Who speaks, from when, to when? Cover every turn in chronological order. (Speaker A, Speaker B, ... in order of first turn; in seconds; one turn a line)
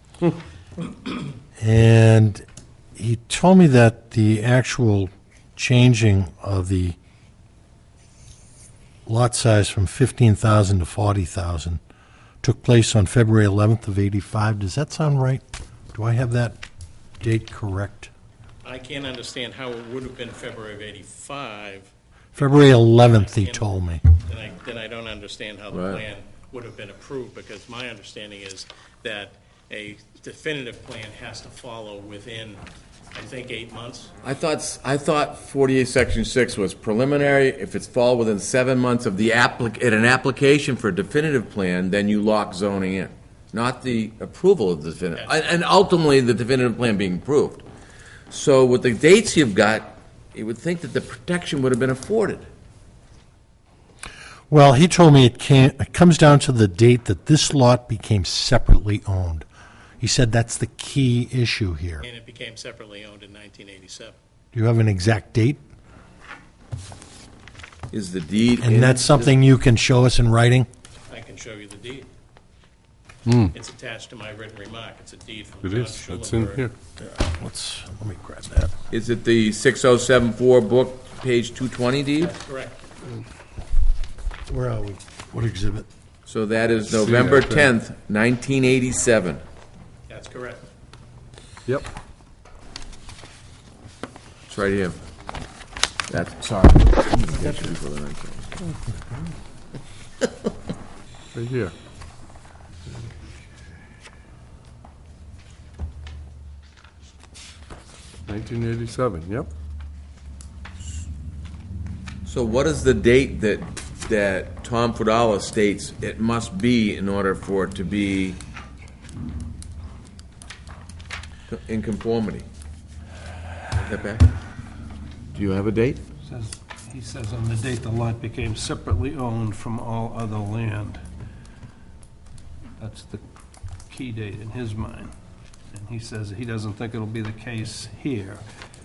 Speaker A: 0.8-1.2
Speaker B: 1.6-2.4
Speaker B: 3.0-7.0
Speaker B: 9.1-11.8
Speaker B: 12.4-16.6
Speaker B: 17.2-18.1
Speaker A: 18.6-32.6
Speaker B: 22.3-24.0
Speaker C: 25.7-26.0
Speaker A: 33.1-34.1
Speaker C: 34.2-47.6
Speaker A: 45.1-45.4
Speaker C: 48.3-52.5
Speaker B: 54.5-59.4
Speaker B: 60.0-62.0
Speaker A: 62.0-64.2
Speaker B: 64.5-65.6
Speaker C: 67.9-69.3
Speaker B: 68.6-70.7
Speaker A: 71.1-72.1
Speaker D: 73.2-73.5
Speaker A: 73.5-76.7
Speaker D: 75.6-76.7
Speaker B: 77.0-78.7
Speaker C: 78.9-82.3
Speaker A: 82.2-82.9
Speaker B: 84.5-85.9
Speaker C: 86.2-89.4
Speaker D: 86.9-87.7
Speaker A: 90.1-90.7
Speaker C: 94.5-95.0
Speaker C: 96.1-98.5
Speaker D: 101.3-101.7
Speaker D: 108.3-109.5
Speaker C: 112.2-118.4
Speaker C: 121.5-122.5
Speaker C: 123.7-124.3
Speaker C: 125.3-126.0
Speaker E: 126.2-131.0
Speaker E: 132.8-133.2
Speaker E: 133.9-135.1
Speaker E: 135.7-138.4